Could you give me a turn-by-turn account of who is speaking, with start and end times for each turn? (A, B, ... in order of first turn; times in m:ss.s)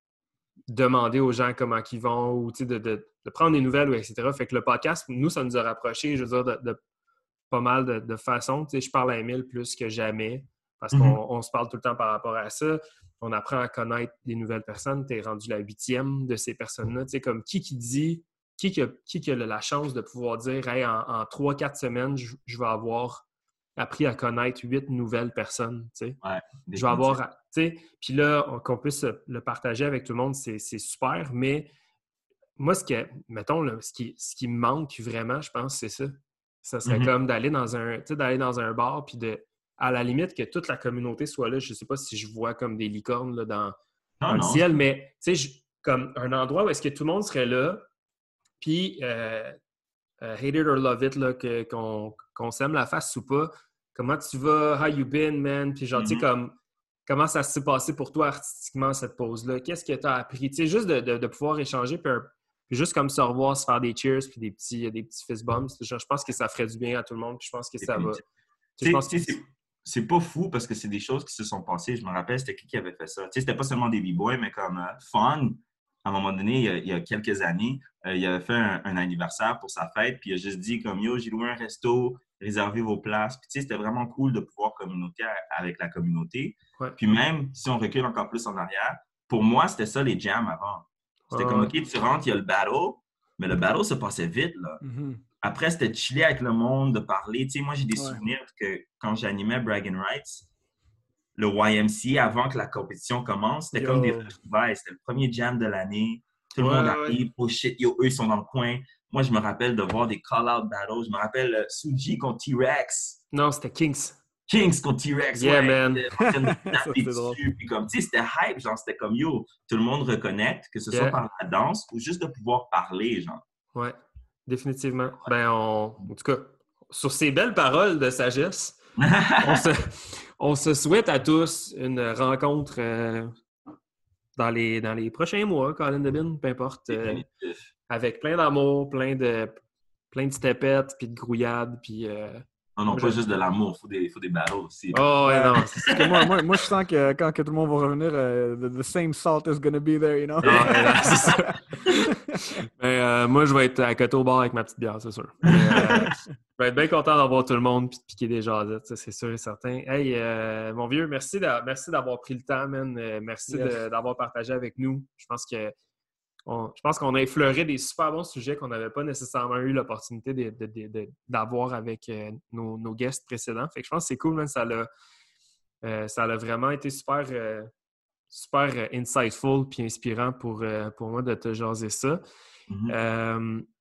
0:00.7-0:06.8 A
0:07.5-0:23.2 A
0:10.9-0:11.2 B
0:23.8-0:26.2 A
0:26.2-0:27.2 B
0:26.7-0:31.7 A
0:32.6-0:43.8 A
0:36.9-0:37.1 B
0:44.2-0:44.8 B
0:44.3-0:47.9 A
0:48.6-0:49.6 A
0:50.2-1:08.2 A
0:56.0-0:56.2 B
1:07.8-1:08.2 B
1:08.8-1:09.4 A
1:08.8-1:34.8 B
1:31.3-1:31.7 A
1:34.8-1:35.2 C
1:35.4-1:40.5 B
1:38.0-1:38.2 C
1:41.4-1:53.2 B
1:43.7-1:44.3 C
1:46.6-1:47.2 A
1:53.3-1:54.2 A
1:54.5-2:03.4 B
1:55.4-1:56.1 A
1:56.2-1:57.4 C
2:00.9-2:01.2 A
2:03.8-2:08.8 A
2:09.0-2:09.6 B
2:09.4-2:13.3 A
2:14.4-2:17.2 A
2:16.9-2:17.7 B
2:17.9-2:19.6 A
2:20.1-2:23.2 A
2:22.8-2:26.6 B
2:24.9-2:25.9 A
2:25.3-2:31.6 C
2:30.4-2:31.4 B
2:30.4-2:45.8 A
2:35.7-2:36.1 B
2:43.5-2:43.8 C
2:46.5-2:54.9 A
2:55.8-2:57.7 A
2:58.3-3:02.2 A
3:02.7-3:03.0 B
3:02.9-3:03.7 A